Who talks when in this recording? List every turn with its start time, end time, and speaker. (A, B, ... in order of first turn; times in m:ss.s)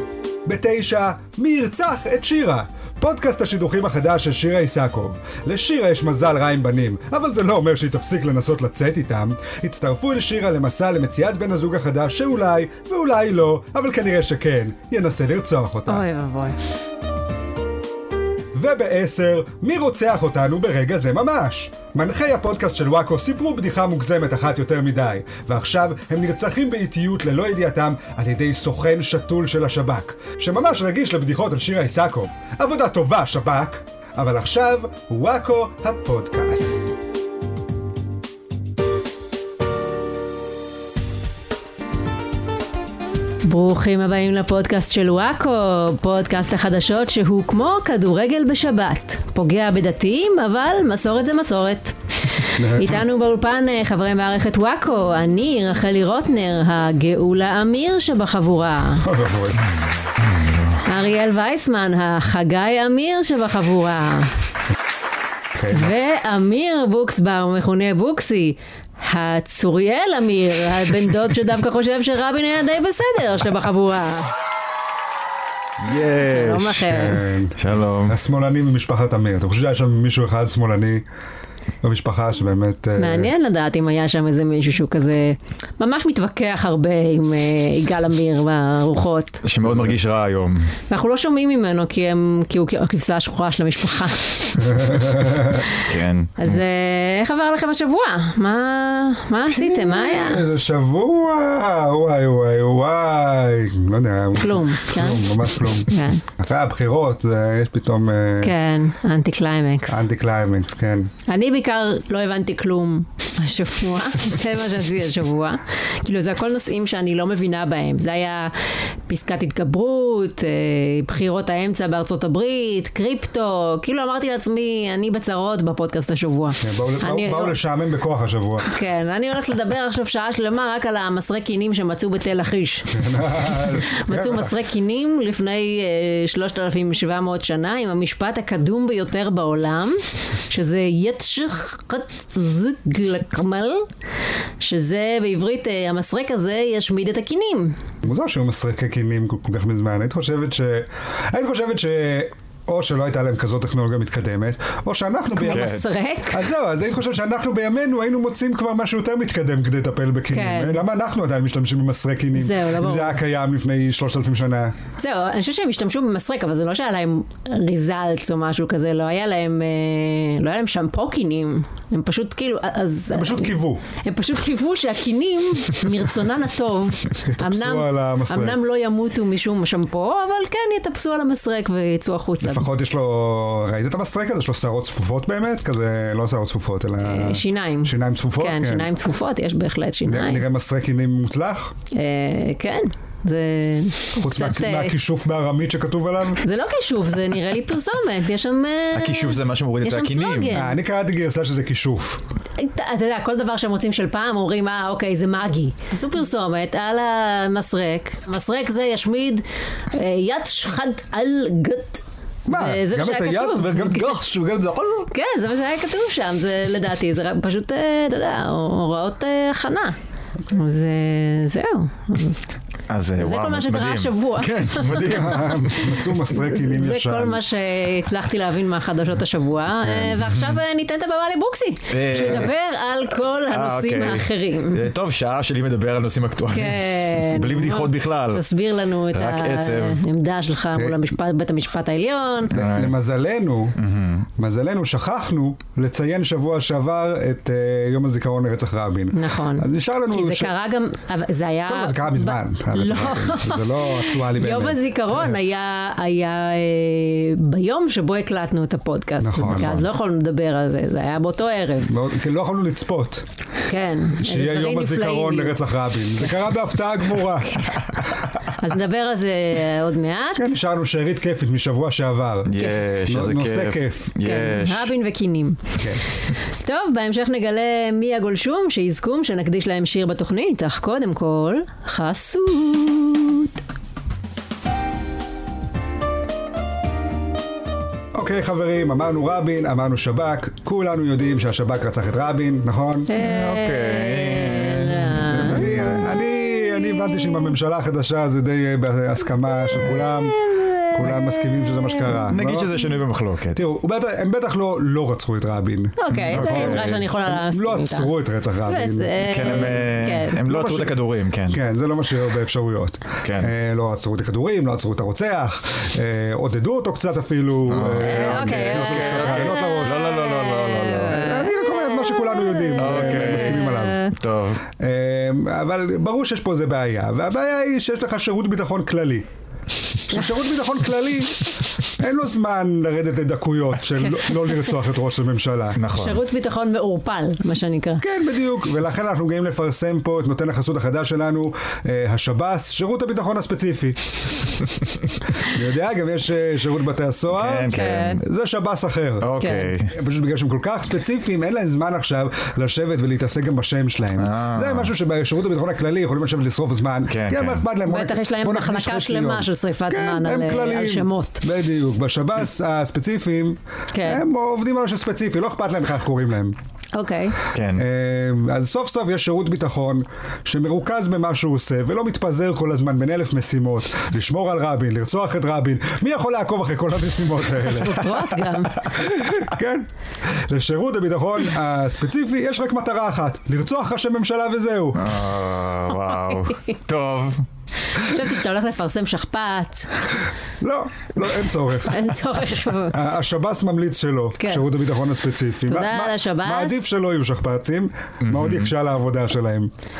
0:00.4-0:16.0 A
0:15.9-0:16.6 B
0:18.5-0:36.9 A
0:43.4-0:59.1 B
0:52.6-0:53.0 A
0:59.0-0:59.7 A
0:59.7-1:00.8 C
1:00.8-1:04.3 B
1:05.6-1:05.9 A
1:05.7-1:14.3 B
1:15.8-1:18.2 C
1:16.2-1:17.2 B
1:16.9-1:21.0 A
1:21.8-1:23.3 A
1:23.0-1:29.4 B
1:29.4-1:30.7 C
1:30.9-1:34.6 B
1:34.6-1:35.7 A
1:35.7-1:36.6 C
1:36.4-1:40.4 B
1:39.5-1:48.5 A
1:44.4-1:45.3 B
1:45.8-1:46.2 B
1:48.4-1:50.0 B
1:49.9-1:51.1 A
1:51.3-2:07.6 B
2:06.6-2:08.7 A
2:08.6-2:13.0 B
2:12.9-2:14.5 A
2:13.6-2:23.9 B
2:24.6-2:27.8 B
2:28.0-2:35.8 A
2:35.3-2:36.4 B
2:35.4-2:35.8 C
2:36.3-2:44.7 A
2:40.3-2:40.8 B
2:42.3-2:43.2 B
2:45.0-3:02.7 B
2:53.1-2:53.8 A
2:57.2-2:58.6 A
3:02.4-3:08.9 A
3:07.0-3:10.4 B
3:10.0-3:11.7 A
3:11.9-3:14.9 B
3:14.2-3:16.4 A
3:16.4-3:20.8 B
3:18.9-3:20.6 C
3:20.5-3:22.2 A
3:22.6-3:34.2 B
3:32.5-3:35.1 A
3:35.1-3:40.0 B
3:40.5-3:42.4 B
3:42.9-3:46.0 C
3:43.2-3:54.9 B
3:45.0-3:47.4 A
3:49.8-3:50.3 A
3:51.9-3:52.5 C
3:53.5-3:58.4 C
3:56.5-4:02.6 B
3:59.1-4:00.0 C
4:02.5-4:02.9 C
4:02.5-4:03.8 A
4:03.8-4:04.3 C
4:04.4-4:10.5 A
4:09.1-4:21.9 B
4:11.6-4:15.3 A
4:19.2-4:19.9 A
4:21.9-4:23.2 A
4:23.7-4:25.6 B
4:24.2-4:27.7 A
4:28.6-4:30.5 B
4:30.3-4:34.1 A
4:32.5-4:34.9 C
4:34.2-4:35.7 B
4:36.5-4:43.6 B
4:48.1-4:53.1 A
4:53.1-4:55.8 B
4:53.2-4:55.4 C
4:55.2-5:02.7 A
4:59.7-5:02.2 B
5:02.3-5:03.6 C
5:03.5-5:09.8 A
5:06.0-5:08.1 B
5:06.1-5:07.1 C
5:08.6-5:10.4 B
5:09.2-5:11.6 C
5:10.4-5:11.0 A
5:11.5-5:20.1 A
5:13.2-5:13.5 C
5:17.6-5:21.4 C
5:18.0-5:24.1 B
5:21.0-5:24.0 A
5:22.8-5:24.6 C
5:24.8-5:29.2 A
5:30.1-5:35.8 A
5:35.8-5:36.2 C
5:35.9-5:38.0 B
5:38.0-5:44.0 A
5:45.4-6:06.6 A
5:47.3-5:48.2 C
5:47.7-5:48.2 B
5:49.2-5:50.0 C
5:49.4-5:49.7 B
5:54.2-5:54.9 C
5:57.1-5:57.6 C
5:57.8-6:01.4 B
6:03.9-6:04.2 B
6:06.9-6:07.4 B
6:07.5-6:07.8 C
6:07.8-6:18.1 A
6:17.6-6:19.0 B
6:18.9-6:25.2 A
6:25.0-6:27.4 C
6:25.9-6:26.8 B
6:27.9-6:30.1 B
6:30.6-6:32.2 A
6:31.8-6:33.0 B
6:32.9-6:39.7 A
6:34.4-6:34.7 B
6:35.7-6:36.8 B
6:38.2-6:38.7 C